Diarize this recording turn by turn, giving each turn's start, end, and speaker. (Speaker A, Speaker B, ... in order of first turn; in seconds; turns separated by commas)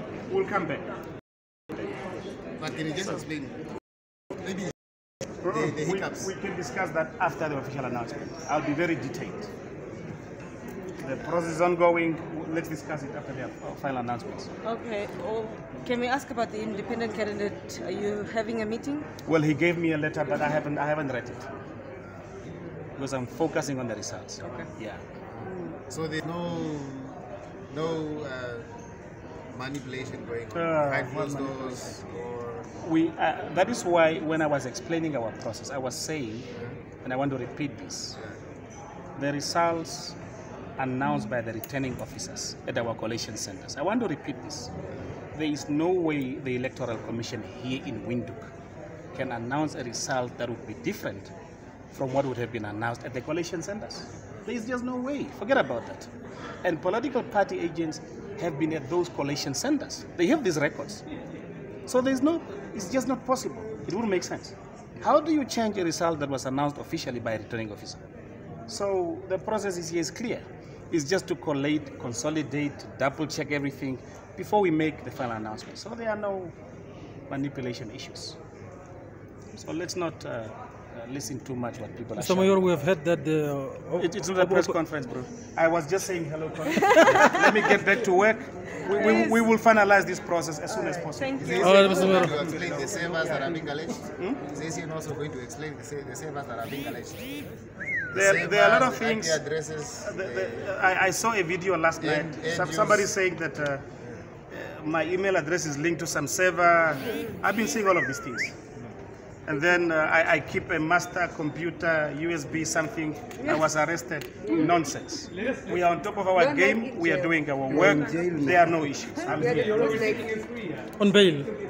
Speaker A: 0.3-0.9, Speaker B: 2.6-3.5, Speaker A: 5.4-9.5, Speaker B: 5.5-6.3, Speaker A: 11.0-14.5, Speaker C: 14.6-19.1, Speaker A: 19.2-21.5, Speaker A: 23.0-25.0, Speaker B: 25.4-28.7, Speaker C: 25.4-25.8, Speaker B: 29.5-32.7, Speaker A: 30.5-32.0, Speaker A: 32.8-36.5, Speaker A: 37.0-38.2, Speaker A: 39.1-40.2, Speaker A: 40.8-44.7, Speaker A: 45.3-48.5, Speaker A: 49.1-51.3, Speaker A: 51.9-56.1, Speaker A: 56.6-61.0, Speaker A: 61.9-68.0, Speaker A: 68.7-76.5, Speaker A: 77.3-78.4, Speaker A: 79.5-82.7, Speaker D: 82.2-84.8, Speaker A: 84.0-93.4, Speaker C: 87.0-87.4, Speaker C: 88.8-89.4, Speaker C: 90.7-93.4, Speaker B: 91.4-97.5, Speaker D: 91.6-92.4, Speaker B: 98.1-100.8, Speaker A: 98.1-99.4, Speaker A: 100.0-103.8, Speaker B: 102.0-103.1, Speaker A: 104.5-108.6, Speaker A: 109.5-120.2, Speaker C: 116.3-117.9, Speaker B: 117.7-118.8, Speaker C: 119.3-120.4, Speaker D: 119.5-121.5